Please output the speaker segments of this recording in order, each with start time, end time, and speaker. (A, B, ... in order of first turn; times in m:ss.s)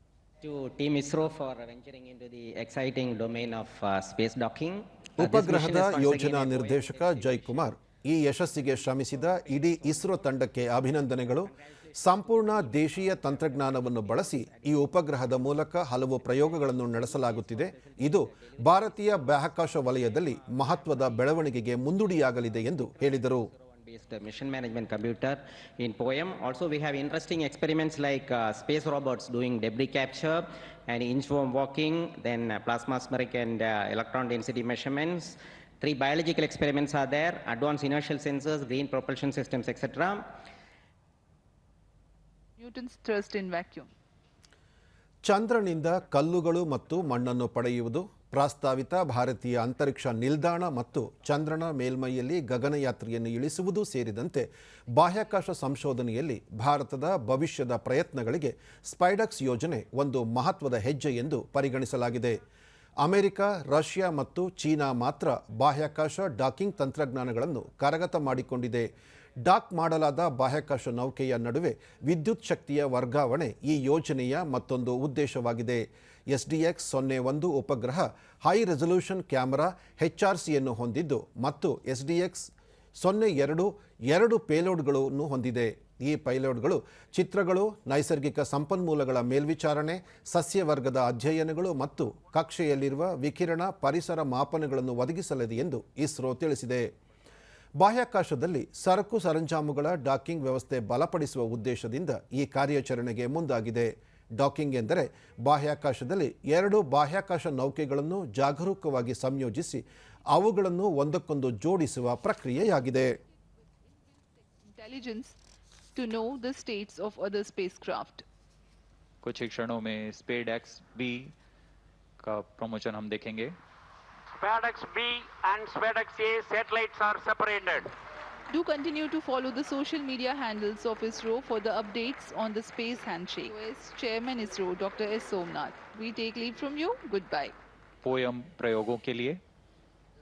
0:00.4-0:07.8 A
0:05.2-0:23.5 B
0:08.5-0:40.2 A
0:42.6-0:43.9 C
0:45.3-1:02.4 B
1:03.0-1:08.9 B
1:09.4-1:22.5 B
1:23.0-1:36.9 B
1:37.8-1:49.8 B
1:50.3-1:53.1 B
1:54.6-1:55.4 C
1:56.0-1:58.2 C
1:59.2-2:01.3 D
2:02.2-2:03.5 D
2:04.4-2:07.9 E
2:08.5-2:17.5 C
2:18.0-2:19.4 D